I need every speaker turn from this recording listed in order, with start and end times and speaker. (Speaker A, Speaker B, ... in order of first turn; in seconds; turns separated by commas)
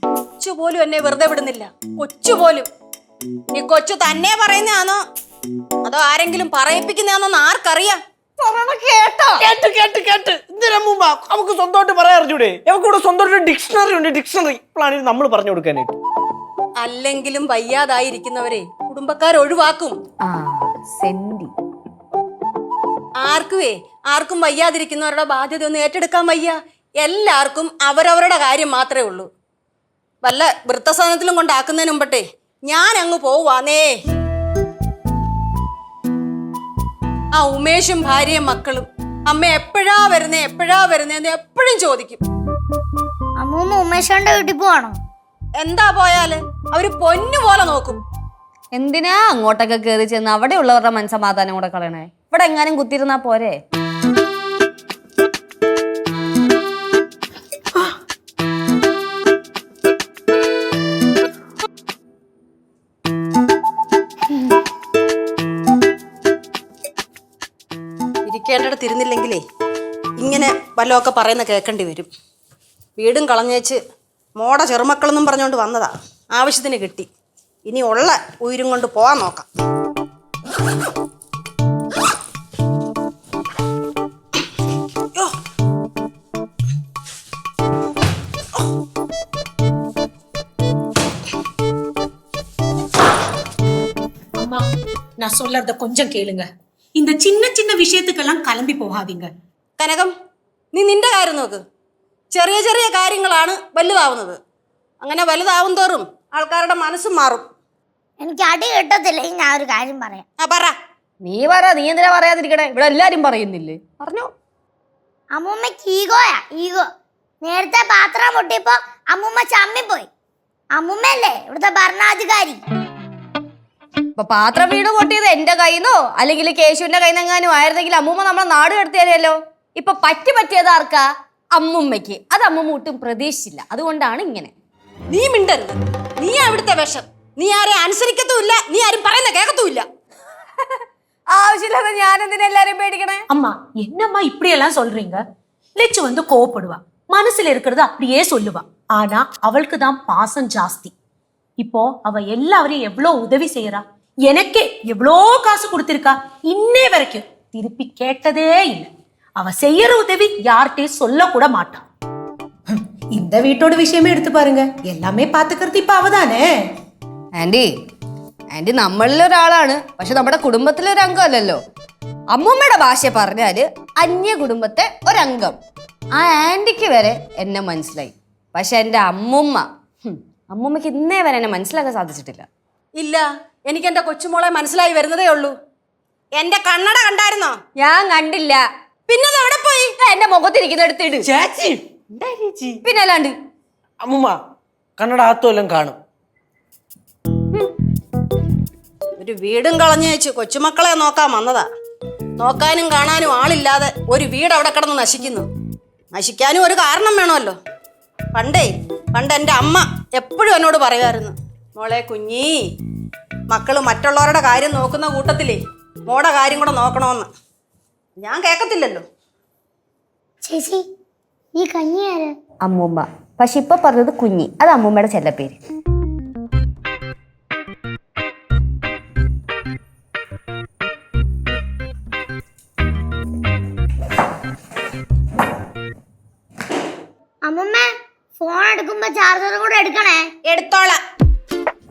Speaker A: 0.4-2.7, Speaker A: 3.5-5.0, Speaker A: 5.8-8.0, Speaker B: 8.4-9.5, Speaker C: 9.4-16.0, Speaker A: 16.8-20.0, Speaker B: 20.2-21.5, Speaker A: 23.2-29.3, Speaker A: 30.2-33.9, Speaker A: 37.3-42.2, Speaker D: 43.4-45.0, Speaker A: 45.6-48.0, Speaker B: 48.8-53.6, Speaker A: 68.3-69.4, Speaker A: 70.2-72.1, Speaker A: 73.0-73.8, Speaker A: 74.4-77.1, Speaker A: 77.7-79.5, Speaker E: 94.4-94.6, Speaker E: 95.2-99.3, Speaker A: 99.8-100.1, Speaker A: 100.7-101.6, Speaker A: 102.3-104.4, Speaker A: 105.0-107.4, Speaker D: 108.2-110.2, Speaker A: 110.4-110.7, Speaker B: 111.2-114.3, Speaker D: 115.3-116.9, Speaker D: 117.4-120.1, Speaker D: 120.8-122.6, Speaker B: 124.2-134.5, Speaker A: 135.1-139.8, Speaker B: 141.3-143.2, Speaker E: 143.3-145.2, Speaker E: 145.8-150.9, Speaker E: 151.6-161.8, Speaker E: 162.7-166.5, Speaker B: 167.4-167.7, Speaker B: 168.5-171.6, Speaker B: 172.3-175.6, Speaker B: 176.2-182.4, Speaker A: 183.0-185.5, Speaker A: 186.3-187.6, Speaker B: 187.8-188.6, Speaker A: 189.1-189.9, Speaker B: 190.0-191.3, Speaker C: 191.2-191.8, Speaker B: 192.2-193.3, Speaker C: 194.0-194.4, Speaker C: 195.0-196.0, Speaker A: 199.2-201.6, Speaker A: 202.4-205.5, Speaker A: 206.1-207.6, Speaker A: 208.3-212.5, Speaker A: 213.5-217.3, Speaker A: 218.2-219.0, Speaker D: 220.4-220.8, Speaker D: 221.6-222.3, Speaker B: 222.7-225.6, Speaker D: 237.4-240.3, Speaker A: 240.5-241.0